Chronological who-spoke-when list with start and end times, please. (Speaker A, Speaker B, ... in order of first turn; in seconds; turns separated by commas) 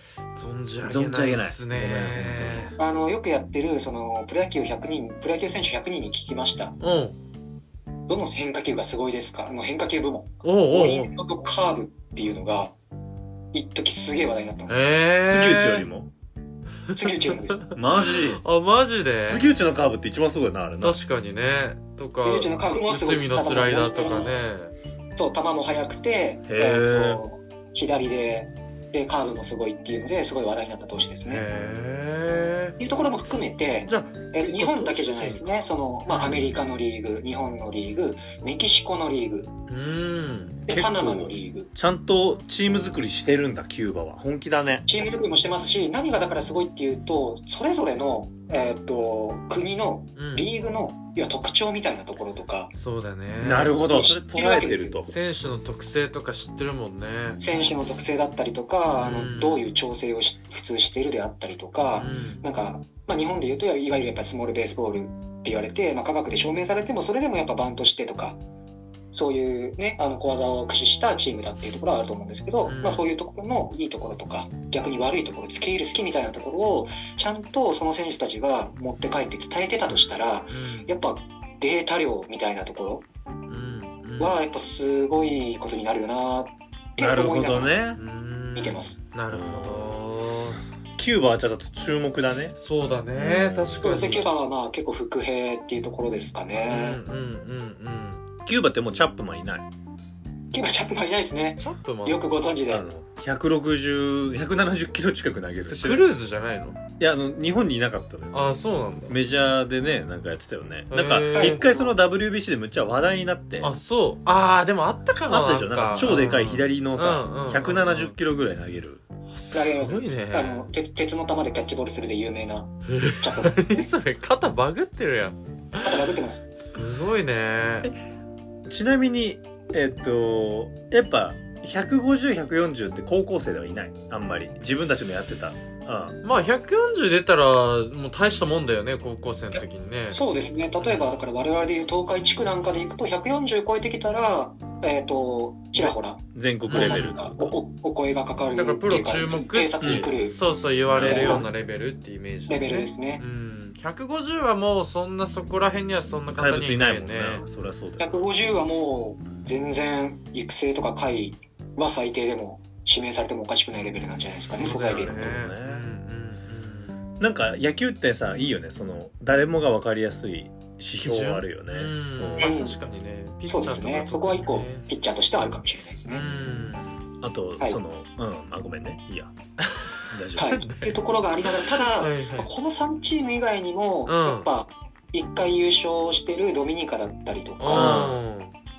Speaker A: 0.3-2.8, Speaker B: 0.8-2.7, Speaker C: 2.8-6.8, Speaker A: 6.8-7.1, Speaker C: 8.1-12.7, Speaker A: 10.4-11.1, Speaker C: 13.5-14.9, Speaker A: 14.7-15.8, Speaker B: 15.2-16.1, Speaker C: 16.9-17.7, Speaker A: 17.6-19.4, Speaker B: 17.7-18.4, Speaker B: 19.2-21.0, Speaker A: 20.8-24.7, Speaker C: 22.2-24.3, Speaker C: 25.1-31.4, Speaker B: 26.5-27.2, Speaker A: 31.3-32.8, Speaker C: 32.8-39.5, Speaker A: 33.9-35.5, Speaker A: 36.1-36.5, Speaker A: 39.7-40.6, Speaker C: 40.6-41.7, Speaker B: 40.7-44.9, Speaker C: 44.9-52.7, Speaker A: 50.2-50.5, Speaker A: 52.7-53.7, Speaker B: 53.4-55.1, Speaker C: 53.8-55.0, Speaker A: 55.1-57.7, Speaker C: 57.4-68.4, Speaker A: 58.9-59.7, Speaker A: 61.9-62.4, Speaker C: 69.1-83.0, Speaker A: 72.7-73.0, Speaker A: 80.5-80.9, Speaker A: 83.5-84.4, Speaker C: 84.2-87.8, Speaker B: 87.0-88.0, Speaker A: 88.0-90.6, Speaker C: 88.5-89.0, Speaker B: 89.3-90.0, Speaker B: 91.0-92.6, Speaker A: 92.6-94.3, Speaker B: 93.1-94.3, Speaker C: 93.8-97.0, Speaker A: 96.6-98.2, Speaker B: 98.4-99.7, Speaker C: 100.5-102.8, Speaker A: 101.6-102.2, Speaker B: 102.7-106.0, Speaker A: 105.6-106.8, Speaker B: 107.0-108.5, Speaker A: 108.3-109.2, Speaker B: 109.1-113.8, Speaker A: 110.9-111.6, Speaker C: 111.3-111.9, Speaker A: 113.6-118.1, Speaker B: 115.3-119.0, Speaker A: 119.3-120.7, Speaker C: 119.5-123.9, Speaker A: 122.9-126.1, Speaker C: 125.8-126.5, Speaker A: 126.6-127.9, Speaker B: 128.7-136.2, Speaker A: 136.2-140.2, Speaker C: 140.1-150.4, Speaker A: 140.8-141.1, Speaker B: 145.8-147.6, Speaker A: 146.7-147.2, Speaker A: 148.5-157.4, Speaker B: 149.8-150.1, Speaker B: 150.9-151.5, Speaker C: 150.9-151.5, Speaker C: 152.5-153.2, Speaker B: 156.3-158.2, Speaker C: 158.0-165.2, Speaker B: 164.6-165.9, Speaker A: 164.6-166.9, Speaker B: 167.2-172.5, Speaker A: 171.0-174.8, Speaker C: 172.4-172.8, Speaker C: 173.4-176.2, Speaker A: 176.1-177.0, Speaker B: 177.2-179.3, Speaker A: 179.6-182.5, Speaker B: 180.1-180.7, Speaker C: 180.4-188.1, Speaker A: 184.1-184.5, Speaker A: 187.6-188.5, Speaker B: 187.7-188.2